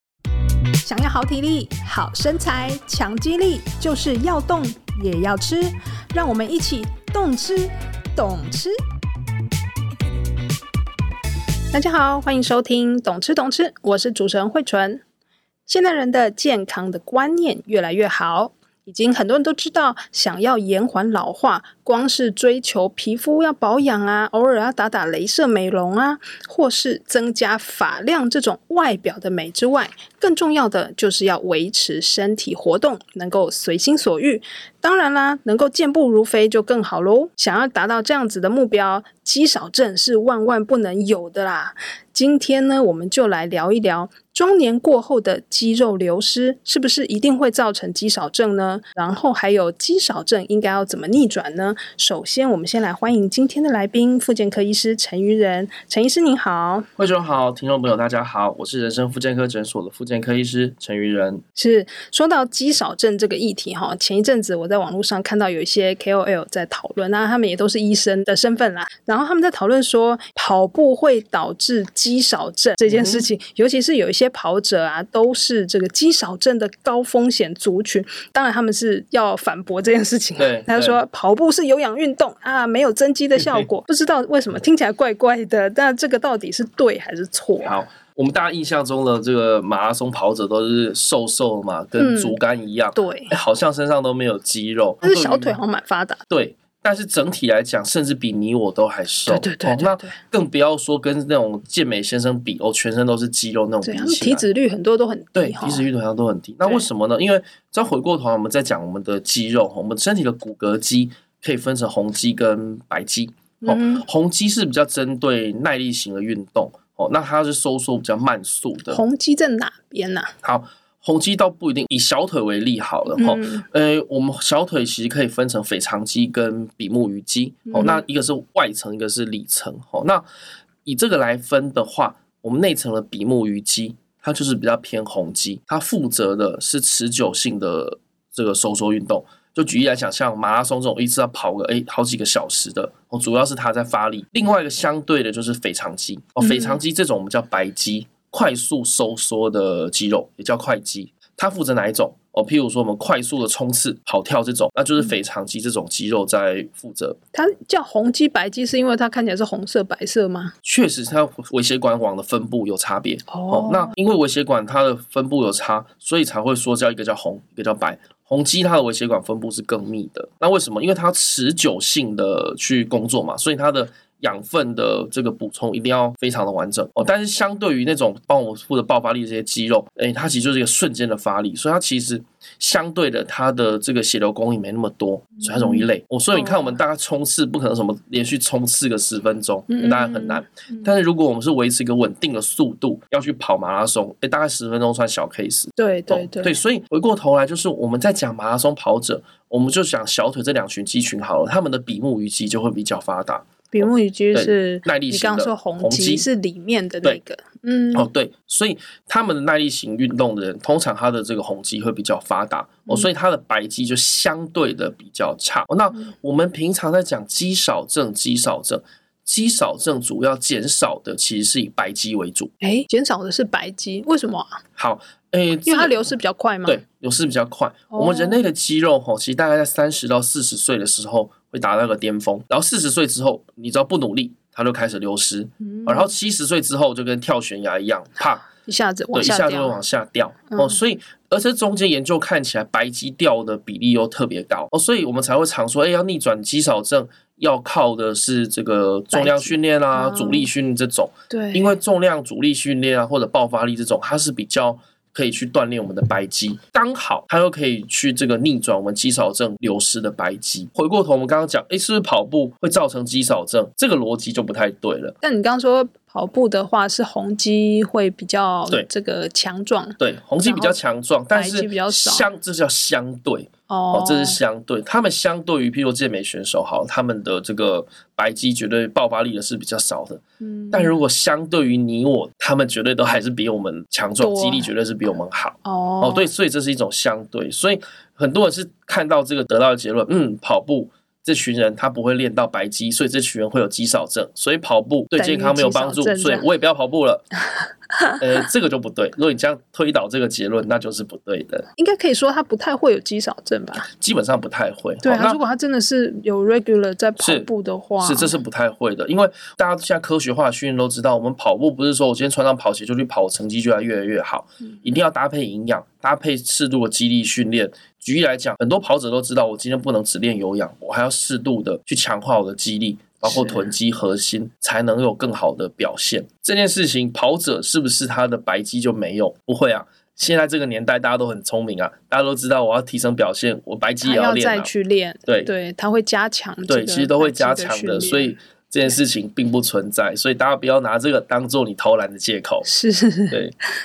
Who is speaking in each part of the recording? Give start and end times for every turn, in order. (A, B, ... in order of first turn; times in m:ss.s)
0:00.8-0:08.7 A
0:11.7-0:15.0 A
0:15.7-0:56.9 A
0:57.0-1:01.4 B
1:01.6-1:27.8 A
1:12.9-1:13.3 B
1:20.4-1:21.0 B
1:27.6-1:35.6 B
1:32.0-1:32.4 A
1:32.9-1:33.3 A
1:35.0-1:36.2 A
1:36.3-1:44.4 B
1:39.3-1:40.1 A
1:43.8-1:45.9 A
1:45.3-1:59.0 B
1:53.6-1:54.0 A
1:58.9-2:00.3 A
2:00.4-2:10.2 B
2:03.1-2:03.7 A
2:07.7-2:08.0 A
2:10.8-2:37.2 B
2:26.4-2:26.8 A
2:37.3-2:40.5 A
2:40.6-3:26.2 B
2:43.3-2:43.9 A
3:05.4-3:06.8 A
3:09.7-3:10.9 A
3:15.8-3:16.6 A
3:23.7-3:28.1 A
3:27.9-3:42.5 B
3:42.6-3:44.6 A
3:44.8-3:46.1 B
3:45.7-3:46.8 A
3:46.7-3:58.4 B
3:47.9-3:48.4 A
3:55.6-3:56.1 A
3:58.6-3:59.8 A
3:59.1-4:25.1 B
4:00.5-4:00.8 A
4:09.1-4:10.5 A
4:11.3-4:11.8 A
4:25.2-4:30.8 A
4:30.0-4:57.2 B
4:31.3-4:32.3 A
4:33.7-4:34.4 A
4:40.4-4:41.0 A
4:44.2-4:44.7 A
4:45.6-4:46.3 A
4:55.2-4:56.5 A
4:58.2-5:01.7 B
5:01.8-5:03.9 A
5:03.8-5:05.4 B
5:05.0-5:08.4 A
5:07.2-5:07.5 B
5:08.0-5:34.7 B
5:23.2-5:23.7 A
5:34.0-5:38.3 A
5:36.7-5:42.7 B
5:42.6-5:43.4 A